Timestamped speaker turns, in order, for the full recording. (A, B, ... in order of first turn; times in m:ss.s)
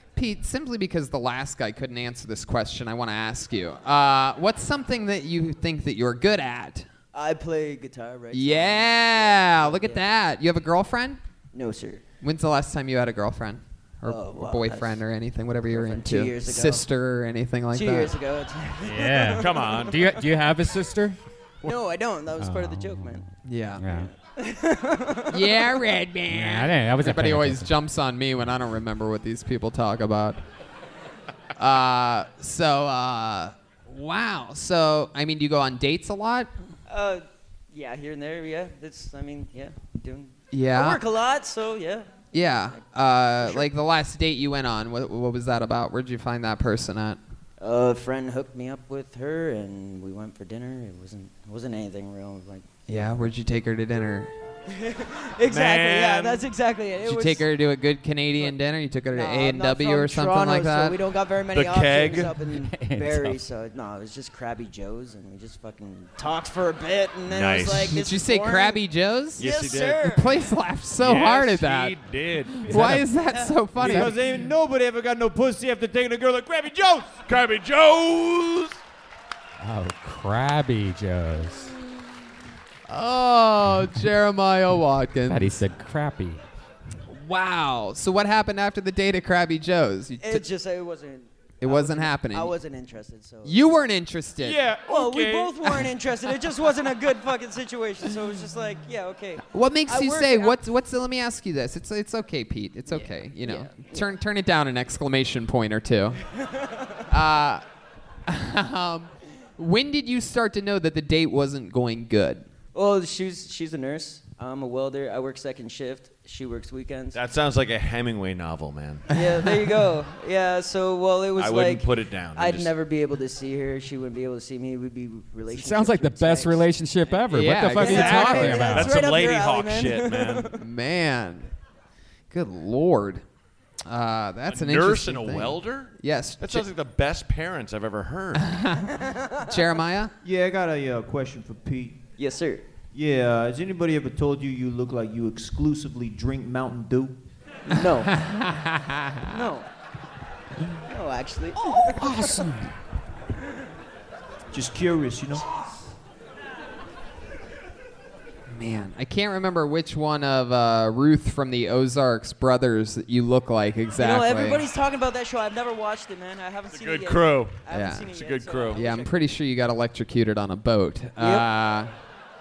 0:00.2-0:06.9 A
0:07.1-0:10.0 B
0:08.3-0:11.2 A
0:11.5-0:12.0 B
0:12.2-0:18.1 A
0:14.1-0:15.0 B
0:15.7-0:16.8 B
0:17.7-0:20.2 B
0:18.8-0:21.2 C
0:19.4-0:19.9 D
0:21.6-0:23.2 B
0:22.4-0:23.2 C
0:23.4-0:23.8 A
0:23.8-0:24.1 C
0:23.8-0:25.7 B
0:25.3-0:30.4 A
0:26.3-0:27.7 C
0:31.6-0:36.5 A
0:36.9-0:42.1 B
0:40.5-0:41.0 A
0:42.3-0:47.2 A
0:43.4-0:43.7 B
0:47.6-0:52.7 B
0:52.9-0:54.3 A
0:54.7-0:57.5 B
0:55.5-0:56.4 D
0:57.0-1:01.0 A
0:59.1-1:08.8 B
1:01.5-1:02.3 D
1:02.6-1:03.4 C
1:07.3-1:07.9 D
1:07.9-1:09.5 A
1:09.4-1:10.4 B
1:09.4-1:10.2 D
1:10.0-1:11.9 A
1:11.0-1:13.0 D
1:12.6-1:14.1 A
1:12.7-1:13.0 C
1:13.2-1:13.6 B
1:13.8-1:17.2 E
1:13.9-1:14.2 C
1:17.3-1:18.8 D
1:19.6-1:21.7 C
1:22.9-1:25.6 A
1:25.3-1:26.4 C
1:27.1-1:30.4 A
1:30.2-1:33.6 B
1:31.6-1:32.5 A
1:33.4-1:34.6 A
1:34.5-1:35.3 D
1:34.5-1:35.5 E
1:34.8-1:40.6 B
1:39.5-1:46.2 A
1:42.9-1:44.1 B
1:46.4-1:47.0 B
1:47.1-1:47.6 A
1:48.3-1:52.4 A
1:52.7-1:57.2 B
1:57.1-1:59.1 D
1:59.1-2:06.7 B
2:01.4-2:02.7 D
2:05.5-2:09.0 C
2:07.3-2:08.7 A
2:07.8-2:10.6 B
2:07.9-2:10.5 D
2:10.6-2:11.5 A
2:12.3-2:13.2 A
2:13.9-2:16.6 A
2:14.5-2:18.5 D
2:18.4-2:18.9 A
2:19.0-2:19.5 B
2:19.5-2:20.1 A
2:20.2-2:22.0 E
2:22.2-2:22.6 B
2:22.9-2:27.2 E
2:27.7-2:28.2 B
2:28.1-2:29.3 A
2:29.3-2:29.7 B
2:30.8-2:32.4 B
2:31.8-2:32.7 C
2:34.5-2:35.4 E
2:38.5-2:44.6 A
2:44.0-2:49.1 B
2:46.7-2:48.8 D
2:47.7-2:48.1 A
2:48.7-2:51.9 A
2:51.2-2:51.4 B